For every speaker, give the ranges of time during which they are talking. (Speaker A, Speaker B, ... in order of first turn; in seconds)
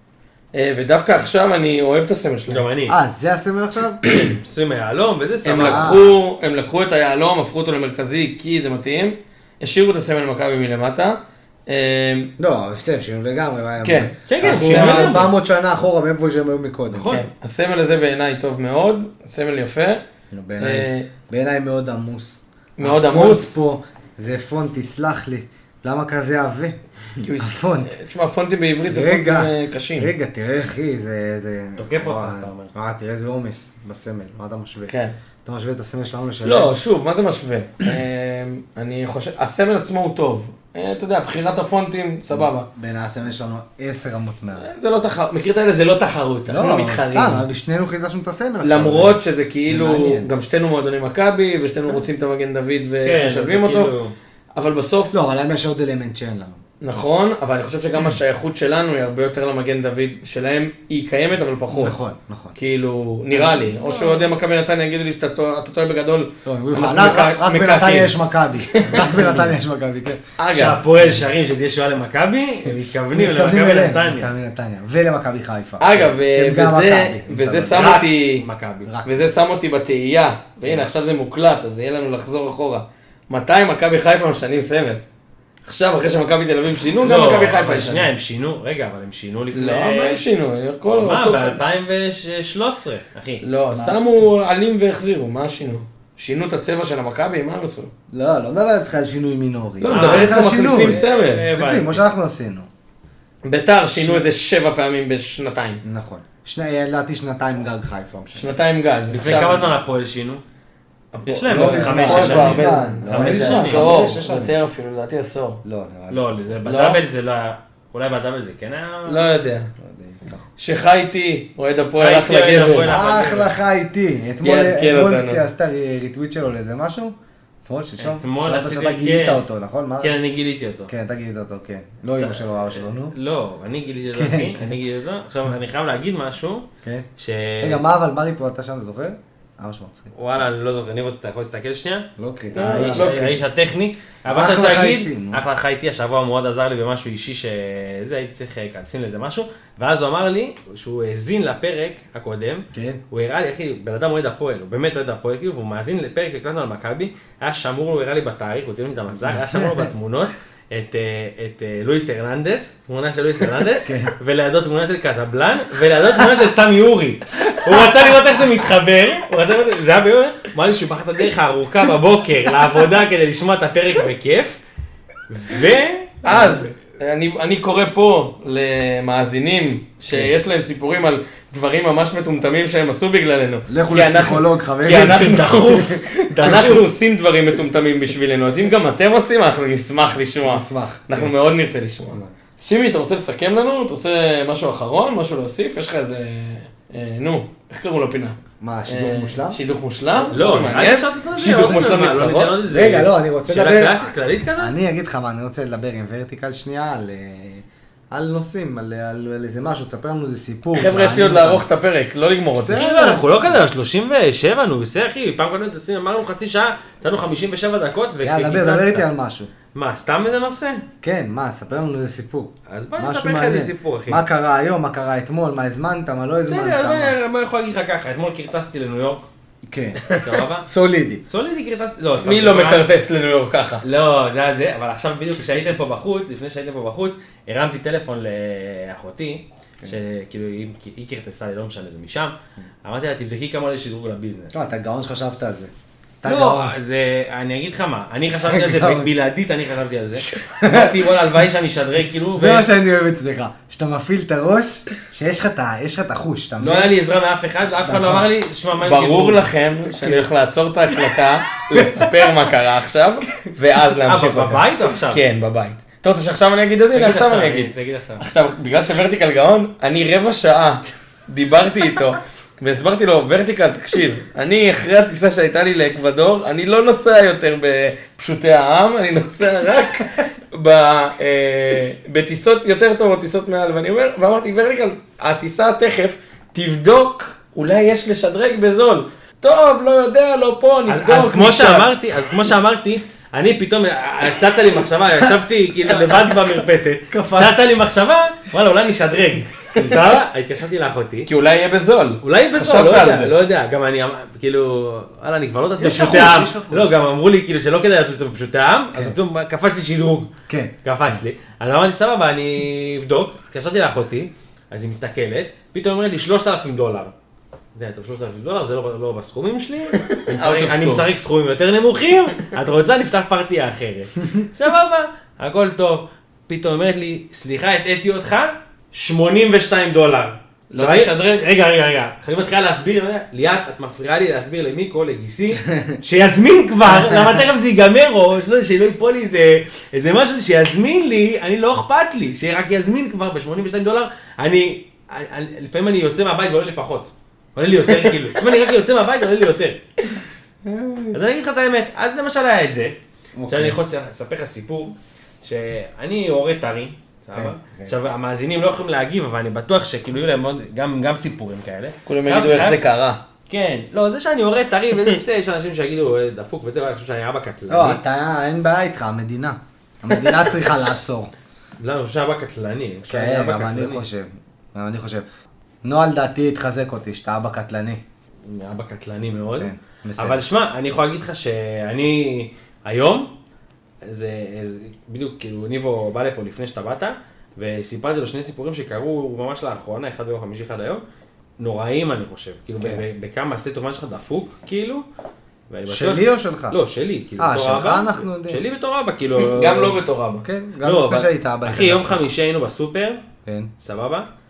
Speaker A: 0.5-2.6, 5.4-12.3, 13.8-15.3, 17.1-20.0, 20.6-21.1, 22.8-23.6, 27.2-30.1, 34.9-35.1, 36.4-42.7, 44.6-47.4, 48.6-53.9, 54.5-55.1, 56.8-62.0, 62.6-68.2, 68.7-69.3, 70.4-70.8, 75.8-78.5, 79.0-85.0, 85.6-88.1, 89.5-91.6, 93.4-97.9, 99.8-101.5, 103.4-105.8, 108.3-109.6, 111.1-115.6, 119.0-119.7, 120.6-122.9, 124.4-125.4, 142.5-143.4, 176.2-202.6, 210.7-212.8, 232.2-233.8, 258.8-291.9, 301.3-303.3, 319.9-321.1, 330.7-331.4, 362.1-363.2, 370.1-370.4, 399.3-400.4
Speaker B: 2.5-3.0, 4.1-6.1, 14.3-15.3, 16.9-17.3, 31.8-32.7, 53.0-54.1, 70.5-74.3, 77.7-78.9, 87.0-90.2, 91.0-93.4, 99.9-102.0, 109.1-110.4, 111.2-113.9, 116.1-119.3, 122.0-123.5, 128.0-129.4, 130.0-130.9, 132.2-136.7, 137.2-137.8, 140.1-174.6, 175.3-176.6, 184.9-186.8, 200.2-204.7, 212.7-219.1, 219.7-220.8, 222.7-224.2, 226.5-229.3, 230.1-230.7, 231.2-232.9, 233.8-244.5, 246.2-252.7, 256.6-260.2, 264.1-265.2, 266.9-268.2, 290.9-301.3, 302.2-310.3, 310.8-317.1, 317.7-349.8, 351.1-352.9, 353.5-362.8, 363.5-368.0, 371.8-374.0, 378.4-383.3, 384.0-391.0, 391.6-395.0, 395.7-400.0, 400.8-403.2, 403.8-404.3
Speaker C: 2.9-4.0, 5.5-6.0, 12.4-17.1, 20.3-27.9, 28.9-36.7, 42.3-44.7, 46.5-50.3, 55.1-56.6, 61.7-62.6, 63.3-64.3, 66.5-70.2, 73.1-78.0, 78.8-79.3, 93.7-94.0, 98.1-101.0, 101.5-102.7, 104.0-104.2, 105.8-108.5, 111.5-114.5, 115.6-117.0, 119.8-120.4, 122.8-130.1, 130.9-133.1, 134.1-134.7, 137.6-140.1, 142.2-143.4, 144.3-145.4, 152.7-153.0, 159.2-159.9, 163.6-164.1, 167.4-168.1, 183.7-186.8, 190.4-191.3, 198.6-199.6, 200.3-200.7, 202.7-211.6, 212.5-213.6, 218.2-219.5, 221.0-227.2, 229.7-230.1, 230.6-231.2, 244.5-245.7, 246.2-246.7, 248.4-249.1, 250.2-251.1, 252.3-256.9, 257.8-258.3, 297.1-297.6, 305.8-306.9, 310.5-311.1, 350.6-351.2, 353.4-353.8, 357.3-357.9, 367.7-371.3, 373.1-375.2, 375.8-378.0, 379.6-380.4, 395.9-396.8, 397.4-398.6, 400.4-402.2, 403.4-403.7